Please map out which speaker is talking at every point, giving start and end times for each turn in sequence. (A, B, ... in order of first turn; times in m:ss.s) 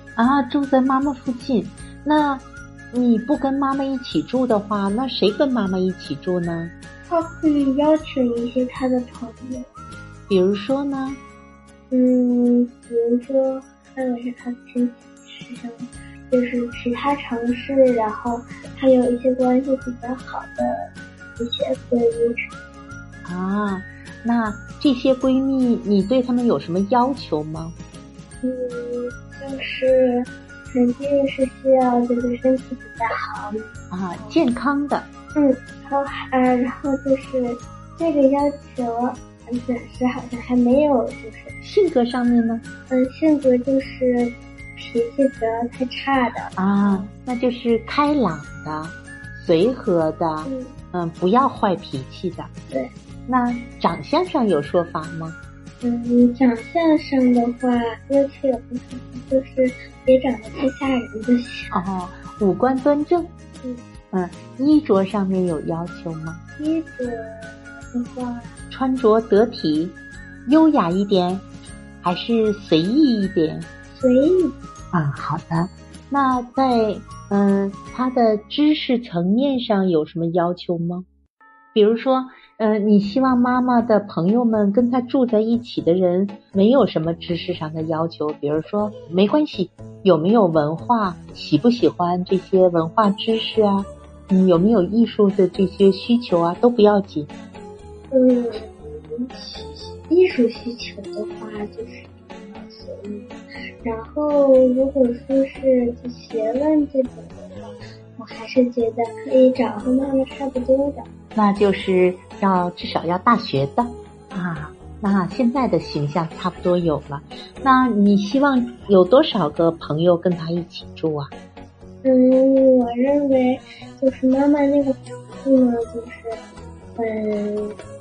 0:00.2-0:06.7 A
0:07.1-0:09.7 B
0:10.3-0:11.2 A
0:11.9-0:22.5 B
0:23.2-0:27.8 A
0:28.4-0:33.7 B
0:33.9-0:35.1 A
0:35.4-0:41.6 B
0:41.6-0:42.7 A
0:42.9-0:47.1 B
0:46.6-0:52.5 A
0:50.4-0:50.8 B
0:53.3-0:55.4 A
0:55.8-1:01.8 B
1:01.7-1:03.3 A
1:04.1-1:06.4 A
1:06.6-1:08.5 B
1:08.7-1:11.5 A
1:12.0-1:13.7 A
1:13.9-1:14.6 B
1:14.9-1:21.1 A
1:21.8-1:37.3 A
1:38.1-1:43.3 B
1:43.8-1:51.1 B
1:51.4-2:01.3 A
2:02.0-2:06.4 B
2:07.0-2:07.8 B